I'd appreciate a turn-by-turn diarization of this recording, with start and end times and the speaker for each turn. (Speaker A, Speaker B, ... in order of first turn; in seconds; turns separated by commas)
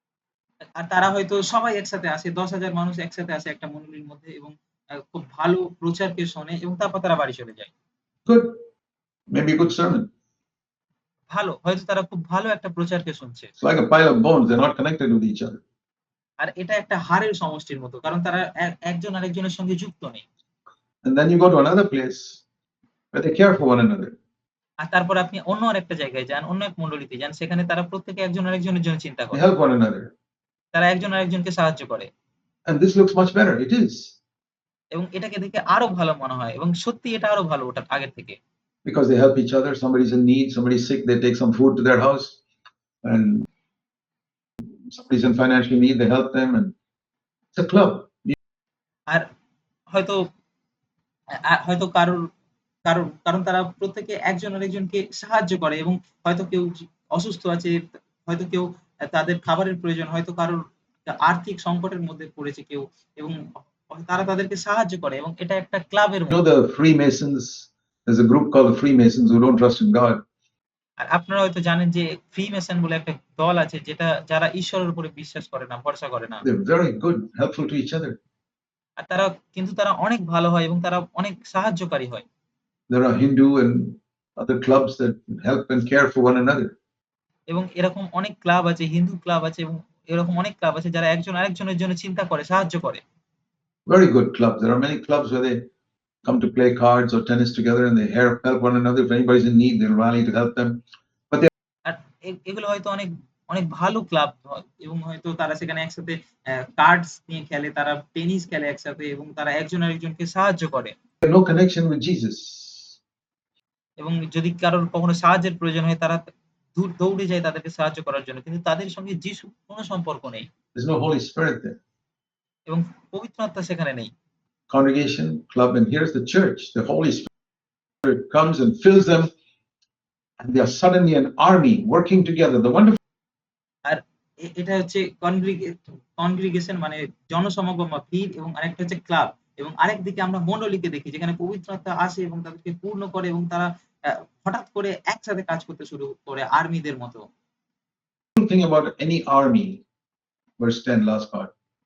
Speaker A: 0.8-7.7, Speaker B: 8.3-8.6, Speaker B: 9.3-10.1, Speaker A: 11.3-13.5, Speaker B: 13.6-15.6, Speaker A: 16.4-20.2, Speaker B: 21.0-22.4, Speaker B: 23.1-24.1, Speaker A: 24.8-29.4, Speaker B: 29.3-30.1, Speaker A: 30.7-32.1, Speaker B: 32.7-34.1, Speaker A: 34.9-38.4, Speaker B: 38.9-42.4, Speaker B: 43.0-43.5, Speaker B: 44.9-46.7, Speaker B: 47.5-48.4, Speaker A: 49.9-50.3, Speaker A: 51.3-52.3, Speaker A: 52.9-66.4, Speaker B: 66.3-70.2, Speaker A: 71.0-76.4, Speaker B: 76.4-78.2, Speaker A: 79.0-82.2, Speaker B: 82.9-86.8, Speaker A: 87.5-93.0, Speaker B: 93.9-95.7, Speaker B: 96.2-101.5, Speaker A: 101.8-111.0, Speaker B: 111.2-112.9, Speaker A: 114.0-120.5, Speaker B: 120.8-121.8, Speaker A: 122.7-124.1, Speaker B: 124.7-127.3, Speaker B: 128.0-129.3, Speaker B: 130.4-133.0, Speaker A: 133.8-147.3, Speaker B: 148.4-149.8, Speaker B: 150.6-151.5